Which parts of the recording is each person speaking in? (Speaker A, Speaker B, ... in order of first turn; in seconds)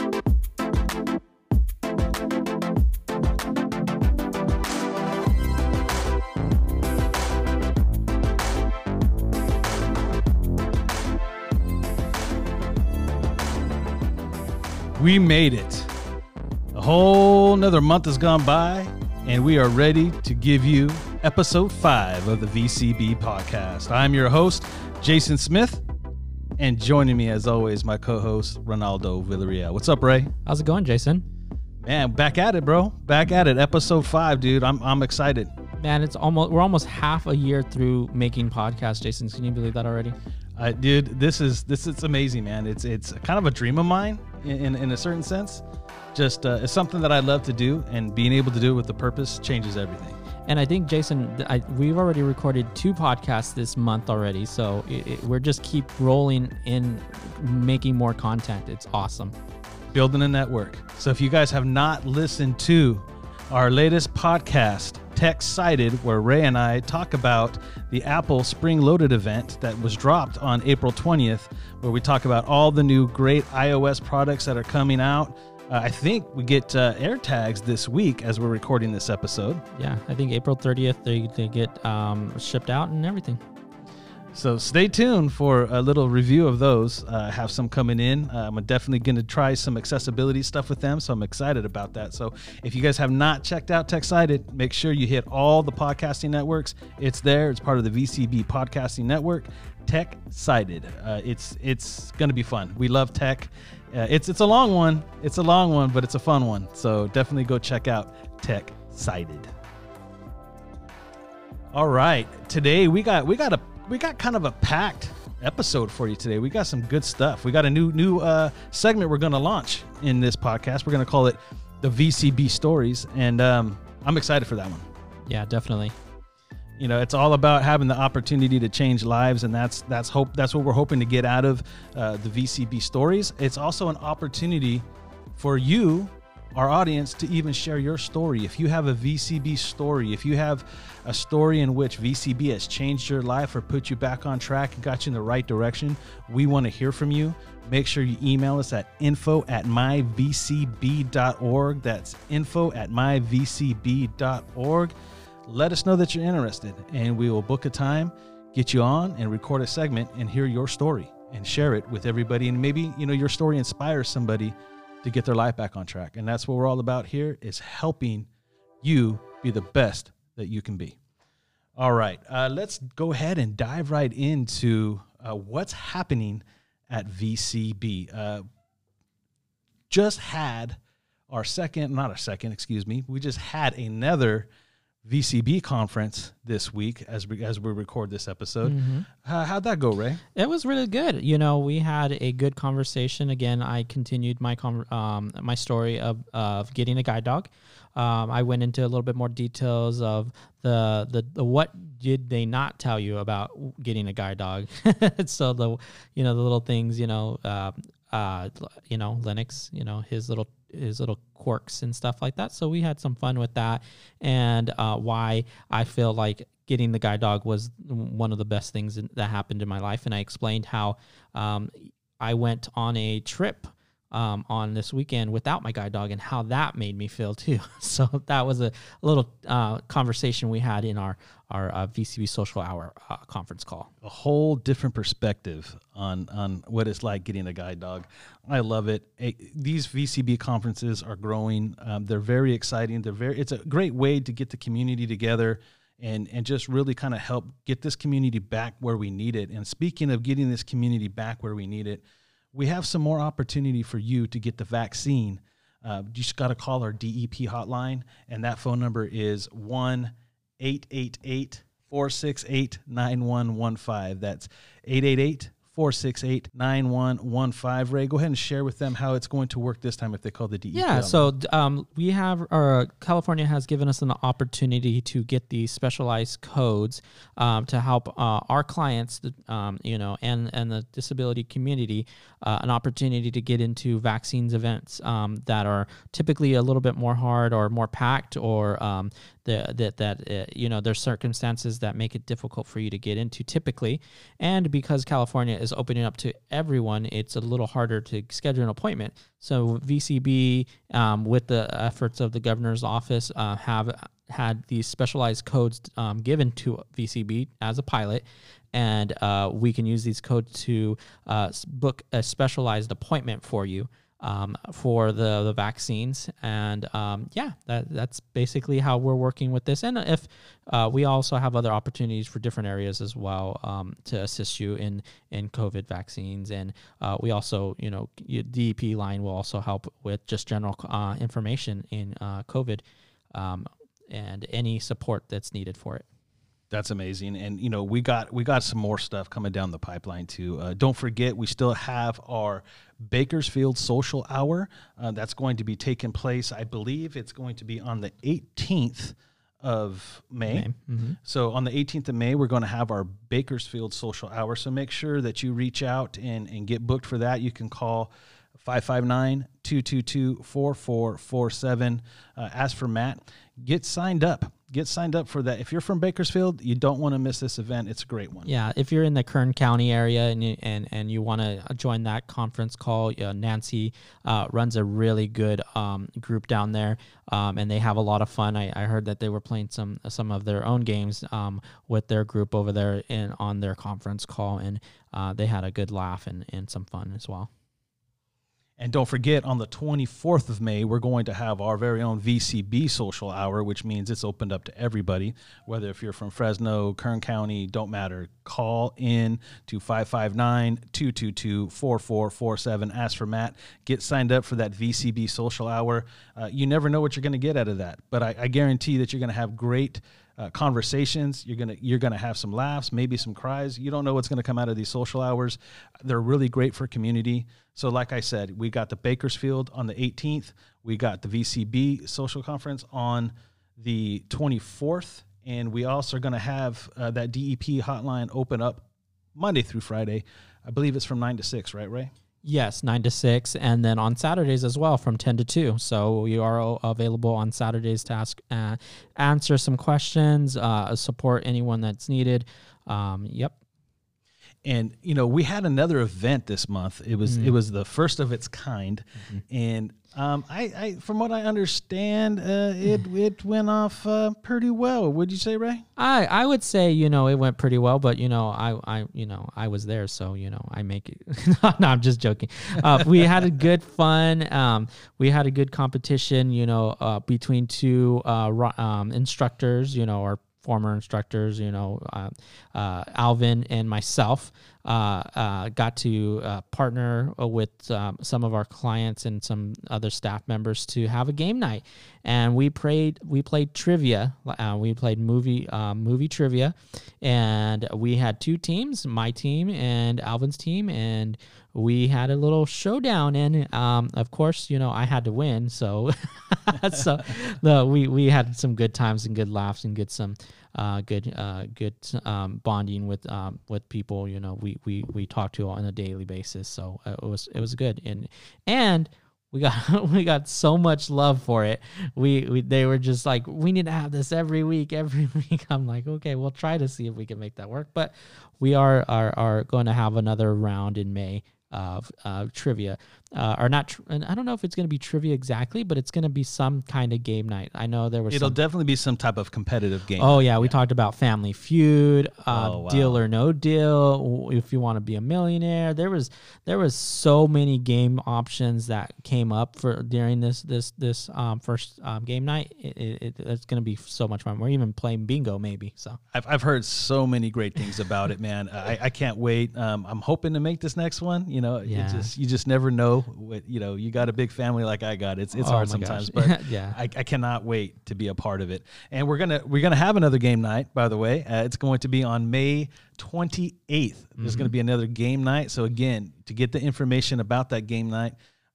Speaker A: 15.0-15.9, 16.7-25.8, 26.6-30.3, 31.8-35.5, 40.6-45.6, 46.1-50.2, 59.9-79.6, 84.3-109.5, 111.7-124.9, 126.8-134.8, 135.3-154.9, 155.4-168.3, 168.8-171.0, 171.8-178.4, 179.9-180.8, 181.3-184.5, 185.0-190.2, 234.0-252.0, 252.5-271.3, 336.7-350.7, 351.2-368.5, 388.8-432.1, 444.6-455.8, 528.3-530.7, 532.5-533.2, 546.3-568.3
Speaker B: 30.4-31.2, 35.8-40.1, 50.5-59.3, 79.8-83.4, 125.3-125.9, 188.6-189.1, 190.3-233.9, 270.7-332.8, 333.3-336.0, 350.5-351.2, 368.4-387.5, 432.4-443.5, 447.2-447.6, 456.0-528.5, 530.2-546.2, 551.9-552.3, 555.6-557.0, 564.4-564.7